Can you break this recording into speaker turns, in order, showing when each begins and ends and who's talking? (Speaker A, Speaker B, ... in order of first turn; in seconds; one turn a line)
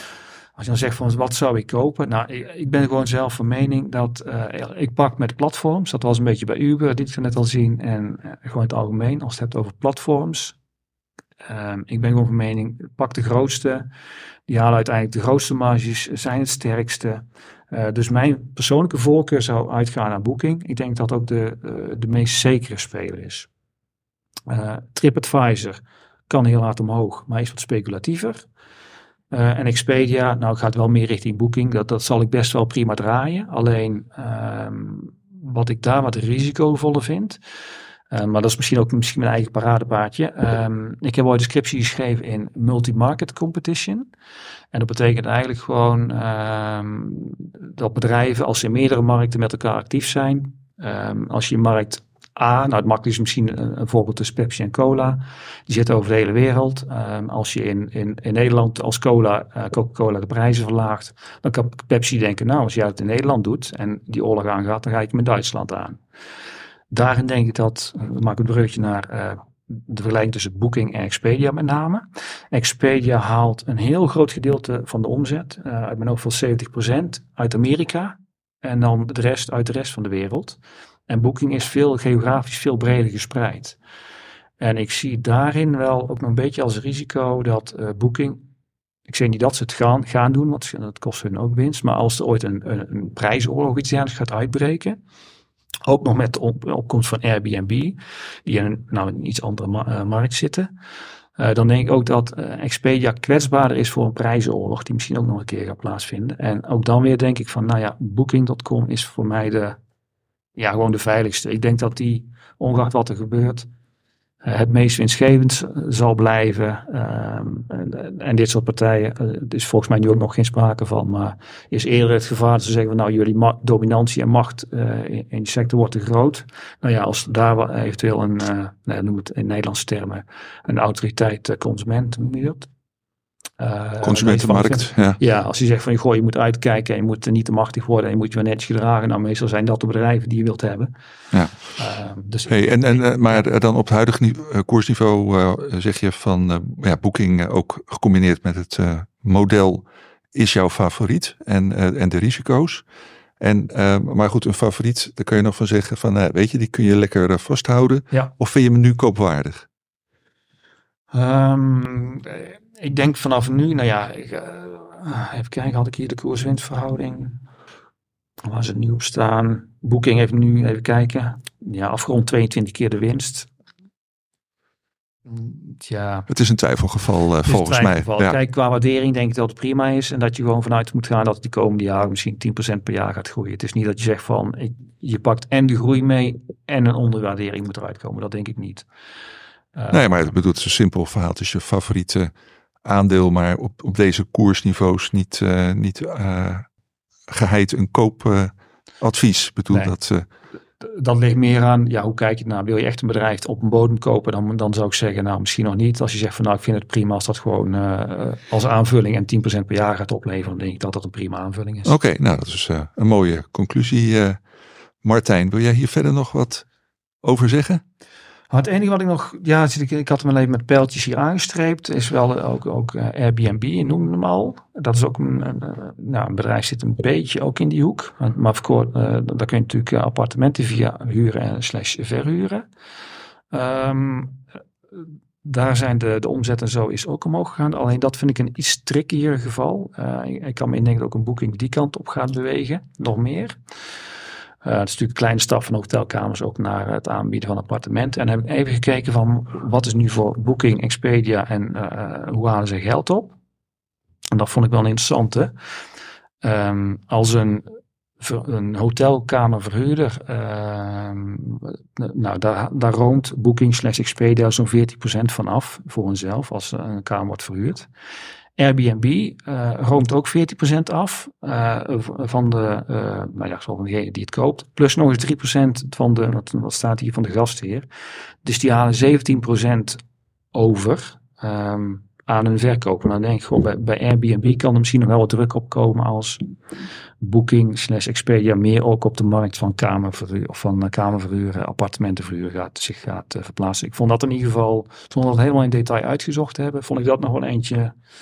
Speaker A: 0.6-10.6
Speaker A: 11.4-13.9
Speaker A: 14.5-23.5
Speaker A: 24.5-28.4
Speaker A: 29.3-37.4
Speaker A: 38.1-44.1
Speaker A: 44.7-66.0
Speaker A: 66.9-83.8
Speaker A: 84.6-88.5
Speaker A: 89.1-95.0
Speaker A: 95.8-100.7
Speaker A: 101.4-109.8
Speaker A: 110.5-113.7
Speaker A: 114.4-132.7
Speaker A: 133.6-140.9
Speaker B: 134.0-135.2
Speaker B: 141.3-141.7
Speaker A: 141.7-143.4
Speaker B: 142.5-152.8
Speaker B: 153.4-159.7
Speaker A: 161.1-167.4
Speaker A: 168.4-173.5
Speaker A: 175.2-176.3
Speaker B: 176.3-178.4
Speaker A: 177.4-188.8
Speaker A: 189.7-190.1
Speaker B: 189.9-192.3
Speaker B: 192.8-196.7
Speaker B: 197.3-200.2
Speaker A: 200.8-211.9
Speaker B: 211.8-214.4
Speaker B: 215.0-216.7
Speaker B: 217.2-217.8
Speaker A: 218.5-232.7
Speaker A: 233.5-234.4
Speaker A: 235.0-243.6
Speaker A: 244.6-253.3
Speaker A: 254.3-255.5
Speaker A: 256.4-257.6
Speaker A: 258.2-267.9
Speaker A: 268.6-277.9
Speaker A: 278.4-280.0
Speaker A: 280.5-286.4
Speaker A: 287.2-297.9